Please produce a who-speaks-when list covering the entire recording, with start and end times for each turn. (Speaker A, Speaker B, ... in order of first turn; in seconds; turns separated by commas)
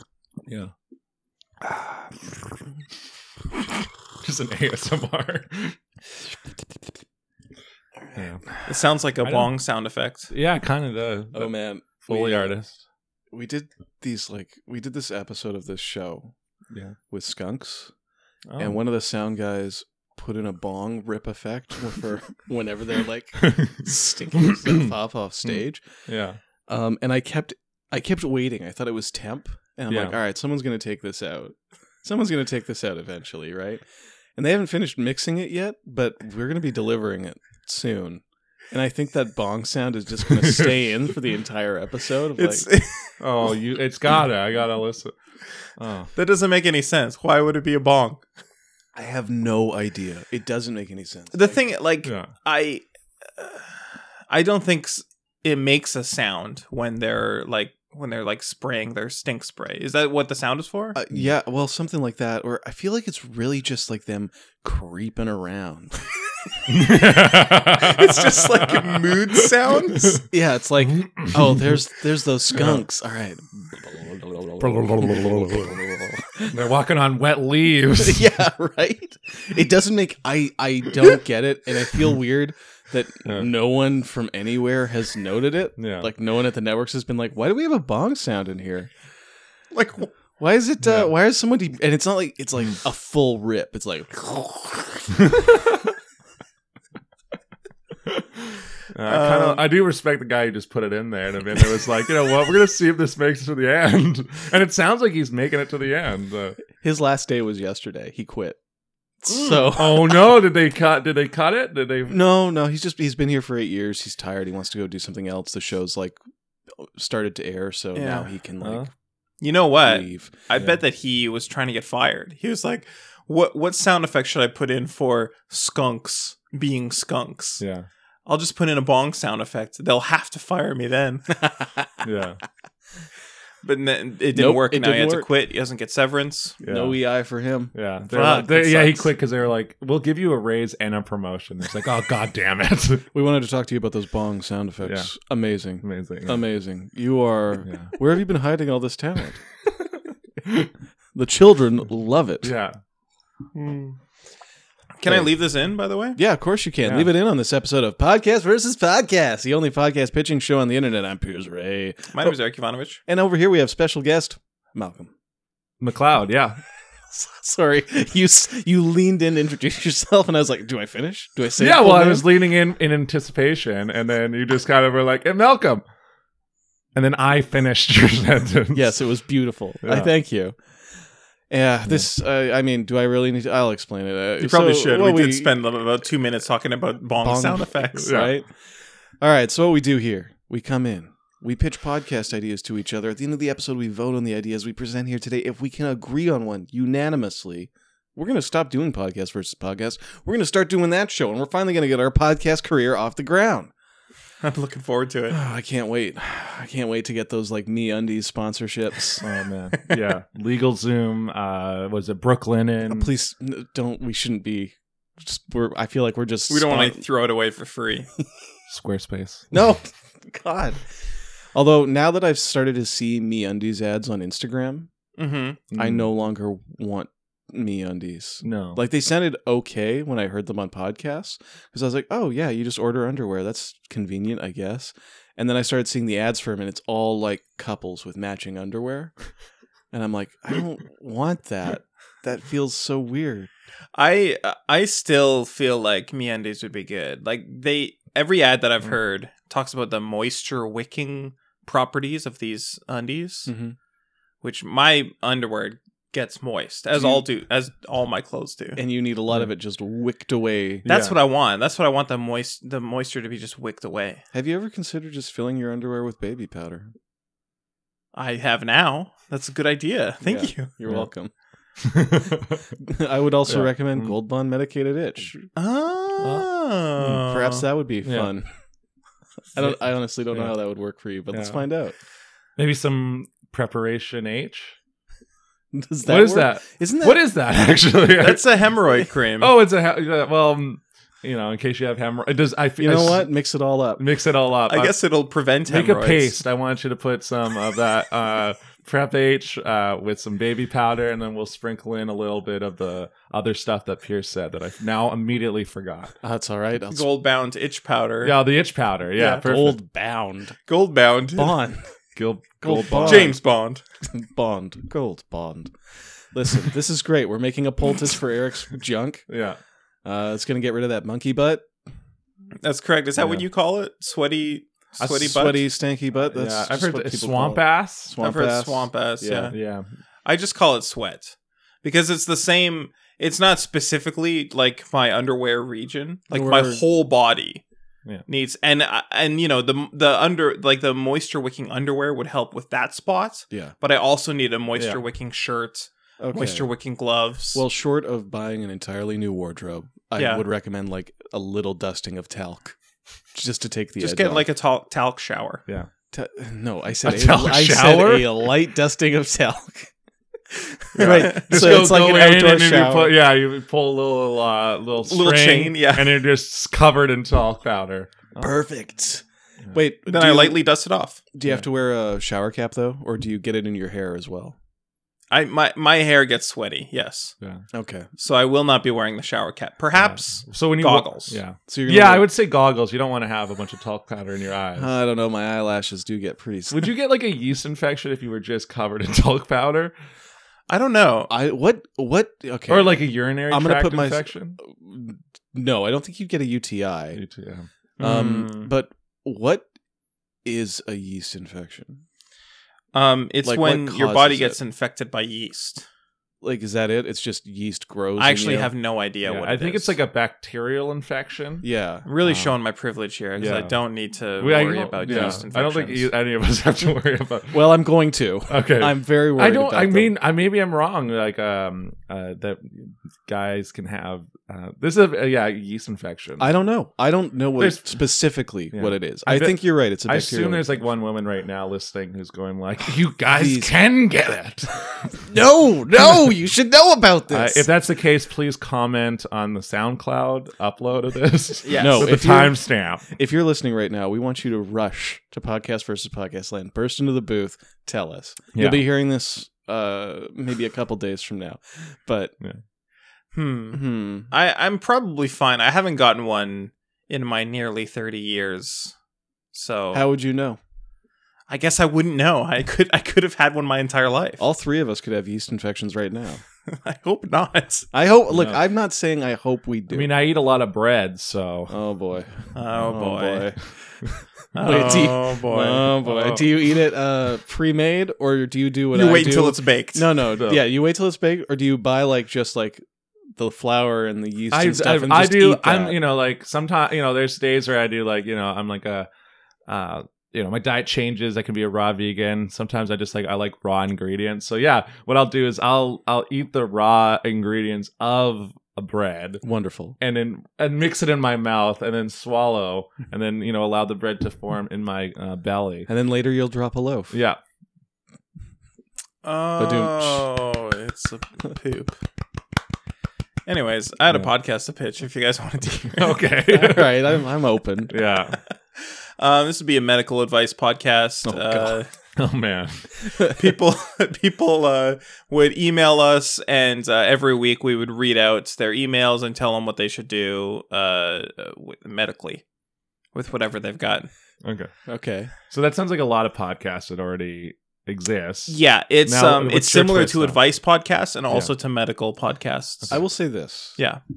Speaker A: 0.5-0.7, Speaker A: 4.2-5.8, Speaker A: 8.1-8.4, Speaker B: 8.7-10.3, Speaker A: 9.2-9.5, Speaker A: 10.3-11.5, Speaker C: 11.3-12.5, Speaker A: 12.0-12.7, Speaker C: 13.3-16.3, Speaker C: 17.1-17.9, Speaker A: 18.5-18.8, Speaker C: 18.6-25.8, Speaker A: 23.4-23.7, Speaker A: 24.5-24.8, Speaker A: 25.4-26.4, Speaker C: 26.7-33.8, Speaker A: 29.9-30.1, Speaker C: 34.4-42.7, Speaker A: 40.3-40.8, Speaker B: 42.4-43.2, Speaker A: 43.2-45.1, Speaker A: 45.8-46.1, Speaker B: 46.1-48.2, Speaker C: 48.9-51.6, Speaker B: 51.3-52.8, Speaker A: 52.0-52.3, Speaker B: 53.4-61.0, Speaker C: 60.9-66.0, Speaker A: 66.7-69.5, Speaker B: 67.7-70.2, Speaker C: 70.2-76.6, Speaker A: 70.9-71.7, Speaker A: 72.5-72.8, Speaker A: 74.6-75.8, Speaker A: 76.4-78.3, Speaker C: 78.0-88.9, Speaker A: 85.8-86.1, Speaker B: 89.7-90.1, Speaker C: 90.4-95.1, Speaker A: 90.8-91.1, Speaker A: 95.2-95.8, Speaker A: 98.1-106.6, Speaker B: 99.0-99.6, Speaker C: 106.8-108.6, Speaker C: 109.2-110.2, Speaker A: 109.6-112.2, Speaker C: 112.1-116.2, Speaker C: 116.7-118.9, Speaker B: 117.9-118.3, Speaker A: 118.6-118.9, Speaker B: 119.4-127.6, Speaker C: 119.8-120.3, Speaker A: 127.6-127.8, Speaker B: 128.2-131.2, Speaker C: 131.4-132.0, Speaker A: 132.0-132.4, Speaker B: 133.6-136.6, Speaker C: 134.3-135.3, Speaker A: 136.6-136.9, Speaker C: 136.6-139.0, Speaker A: 137.7-143.1, Speaker B: 138.1-138.5, Speaker C: 143.1-149.4, Speaker A: 144.8-145.1, Speaker A: 145.8-146.4, Speaker A: 147.7-147.9, Speaker C: 151.1-152.5, Speaker A: 152.4-152.8, Speaker B: 153.5-153.9, Speaker B: 155.0-156.2, Speaker C: 156.1-162.3, Speaker B: 162.1-163.0, Speaker C: 163.1-165.1, Speaker A: 165.8-166.6, Speaker C: 167.1-172.4, Speaker A: 171.6-175.8, Speaker A: 176.9-178.9, Speaker C: 178.7-180.6, Speaker A: 179.8-180.1, Speaker C: 181.5-185.5, Speaker B: 184.4-188.1, Speaker C: 187.2-188.5, Speaker A: 187.9-188.3, Speaker C: 189.2-203.7, Speaker B: 204.4-205.4, Speaker C: 205.3-209.2, Speaker A: 209.2-213.1, Speaker C: 212.9-217.0, Speaker B: 216.5-218.1, Speaker A: 218.7-219.6, Speaker C: 219.5-220.8, Speaker C: 221.5-224.9, Speaker B: 225.2-225.6, Speaker A: 225.7-226.0, Speaker C: 225.7-239.1, Speaker A: 228.4-228.8, Speaker C: 239.9-243.5, Speaker B: 243.9-253.5, Speaker C: 253.5-253.8, Speaker B: 254.4-258.8, Speaker C: 258.8-260.9, Speaker A: 260.8-261.1, Speaker B: 260.9-264.2, Speaker C: 264.3-266.9, Speaker B: 268.1-270.7, Speaker C: 270.2-271.3, Speaker A: 271.8-272.6, Speaker C: 272.8-275.3, Speaker A: 273.4-274.1, Speaker B: 275.5-277.6, Speaker A: 276.2-276.4, Speaker C: 277.2-278.5, Speaker A: 278.0-278.3, Speaker C: 279.5-281.9, Speaker A: 281.3-281.6, Speaker A: 282.6-284.8, Speaker C: 285.7-287.2, Speaker A: 286.1-288.4, Speaker B: 288.2-289.5, Speaker A: 289.4-293.3, Speaker C: 292.8-294.0, Speaker A: 294.0-294.9, Speaker B: 294.7-296.3, Speaker A: 295.7-306.1, Speaker C: 306.2-307.1, Speaker B: 306.9-308.3, Speaker A: 308.2-309.8, Speaker B: 309.1-309.4, Speaker C: 309.4-310.6, Speaker B: 310.7-311.6, Speaker C: 311.4-311.9, Speaker A: 312.1-313.3, Speaker C: 312.6-313.4, Speaker B: 313.0-313.8, Speaker C: 314.1-319.2, Speaker A: 319.3-319.6, Speaker C: 320.0-321.6, Speaker B: 322.6-325.7, Speaker A: 323.2-323.4, Speaker A: 325.0-325.4, Speaker C: 325.2-329.5, Speaker A: 326.3-328.1, Speaker B: 328.2-329.5, Speaker A: 329.5-329.9, Speaker B: 330.2-337.6, Speaker C: 336.3-336.8, Speaker B: 338.3-347.6, Speaker C: 346.2-346.7, Speaker C: 347.5-352.8, Speaker B: 350.2-350.4, Speaker C: 353.3-354.4, Speaker B: 354.0-355.6, Speaker C: 356.1-359.9, Speaker A: 357.0-358.4, Speaker C: 360.5-363.1, Speaker A: 360.9-368.5, Speaker B: 361.0-361.8, Speaker B: 365.0-366.2, Speaker C: 368.4-370.6, Speaker B: 370.1-371.2, Speaker C: 371.3-374.6, Speaker B: 375.3-377.3, Speaker C: 377.7-378.1, Speaker B: 378.2-381.4, Speaker A: 379.9-384.9, Speaker C: 381.7-382.3, Speaker C: 384.8-386.9, Speaker A: 386.7-389.9, Speaker B: 390.7-391.3, Speaker C: 391.3-397.2, Speaker A: 392.7-394.6, Speaker A: 397.1-397.7, Speaker B: 398.0-398.7, Speaker C: 398.0-399.6, Speaker C: 400.4-402.0, Speaker B: 402.9-405.8, Speaker C: 403.4-404.6, Speaker C: 406.4-408.7, Speaker B: 408.2-409.9, Speaker A: 409.2-411.6, Speaker C: 411.6-412.1, Speaker B: 412.1-416.1, Speaker A: 412.2-412.5, Speaker A: 413.4-413.7, Speaker A: 414.4-417.8, Speaker C: 415.1-415.4, Speaker C: 417.5-420.1, Speaker A: 418.5-426.5, Speaker C: 426.4-430.7, Speaker A: 427.6-427.9, Speaker A: 428.7-435.2, Speaker C: 433.3-433.7, Speaker C: 435.3-437.7, Speaker A: 437.3-443.1, Speaker B: 441.6-442.1, Speaker C: 441.7-452.3, Speaker A: 448.5-448.8, Speaker B: 453.3-458.9, Speaker C: 453.7-454.3, Speaker B: 459.5-460.1, Speaker C: 459.9-460.6, Speaker B: 461.5-464.4, Speaker C: 464.4-466.4, Speaker B: 466.7-467.9, Speaker C: 467.9-470.1, Speaker A: 468.3-468.6, Speaker A: 469.9-471.7, Speaker C: 471.7-482.8, Speaker B: 472.5-473.5, Speaker B: 474.5-475.8, Speaker A: 474.6-476.4, Speaker B: 478.9-480.0, Speaker C: 483.4-486.0, Speaker A: 484.5-489.1, Speaker A: 489.7-499.4, Speaker C: 499.4-500.0, Speaker A: 500.0-505.9, Speaker C: 505.9-507.1, Speaker A: 507.1-507.4, Speaker B: 509.2-512.0, Speaker C: 509.6-510.3, Speaker B: 513.5-516.2, Speaker A: 516.0-517.1, Speaker C: 516.5-517.9, Speaker A: 517.9-518.4, Speaker B: 518.8-521.9, Speaker C: 521.2-521.8, Speaker A: 522.2-522.9, Speaker B: 523.3-532.4, Speaker B: 533.1-534.1, Speaker A: 534.4-534.7, Speaker C: 534.9-535.3, Speaker A: 535.5-540.4, Speaker B: 538.5-542.9, Speaker C: 542.9-543.8